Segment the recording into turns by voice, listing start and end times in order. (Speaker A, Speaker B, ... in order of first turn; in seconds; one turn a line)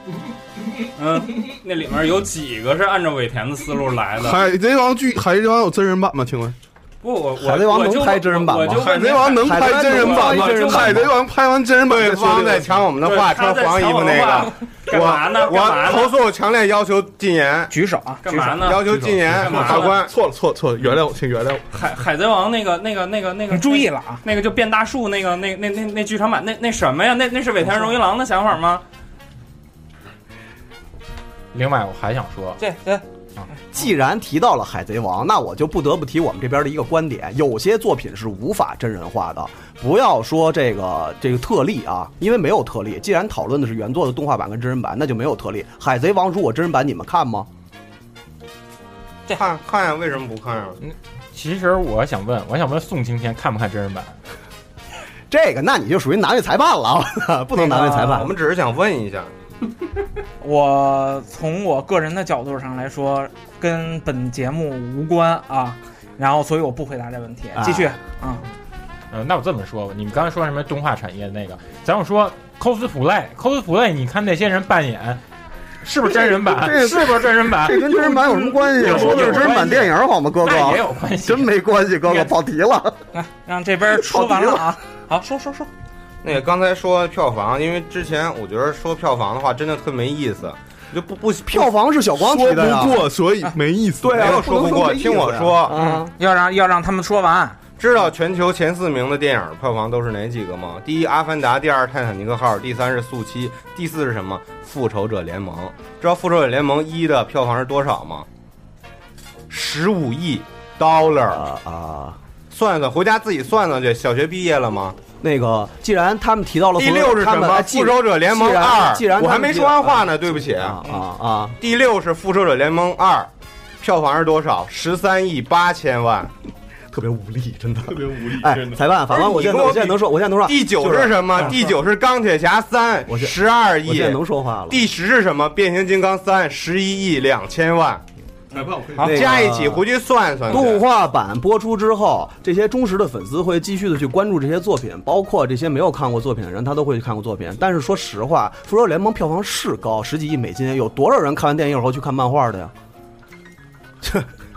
Speaker A: 0.9-4.4
Speaker B: 4.2-6.5
Speaker A: 7.0-11.1
Speaker C: 7.4-11.1
Speaker B: 8.8-12.8
Speaker D: 11.8-17.7
Speaker A: 13.0-16.2
Speaker E: 17.7-18.8
Speaker A: 18.2-20.0
Speaker D: 18.6-20.1
Speaker B: 18.8-21.6
Speaker A: 21.7-28.8
Speaker E: 23.5-24.2
Speaker F: 31.5-32.6
Speaker E: 32.6-33.0
Speaker C: 33.7-47.5
Speaker D: 49.3-50.8
Speaker F: 50.8-54.1
Speaker C: 55.3-58.3
Speaker E: 57.6-58.1
Speaker D: 57.7-59.3
Speaker E: 60.4-68.4
Speaker C: 67.5-68.0
Speaker F: 69.1-75.2
Speaker F: 75.8-81.5
Speaker C: 76.2-83.0
Speaker E: 83.1-85.7
Speaker C: 84.0-84.6
Speaker D: 86.2-91.7
Speaker C: 91.5-93.0
Speaker B: 92.2-94.4
Speaker C: 94.0-96.1
Speaker D: 94.1-95.8
Speaker E: 95.7-97.6
Speaker D: 97.8-108.3
Speaker D: 109.5-111.5
Speaker C: 111.3-112.2
Speaker D: 112.5-115.0
Speaker C: 115.2-121.5
Speaker D: 116.8-120.8
Speaker D: 121.6-126.3
Speaker C: 126.9-131.4
Speaker B: 127.9-128.8
Speaker D: 129.1-138.0
Speaker C: 133.1-134.8
Speaker B: 138.5-139.1
Speaker D: 138.9-140.8
Speaker C: 139.0-139.8
Speaker C: 140.4-152.7
Speaker C: 154.0-154.3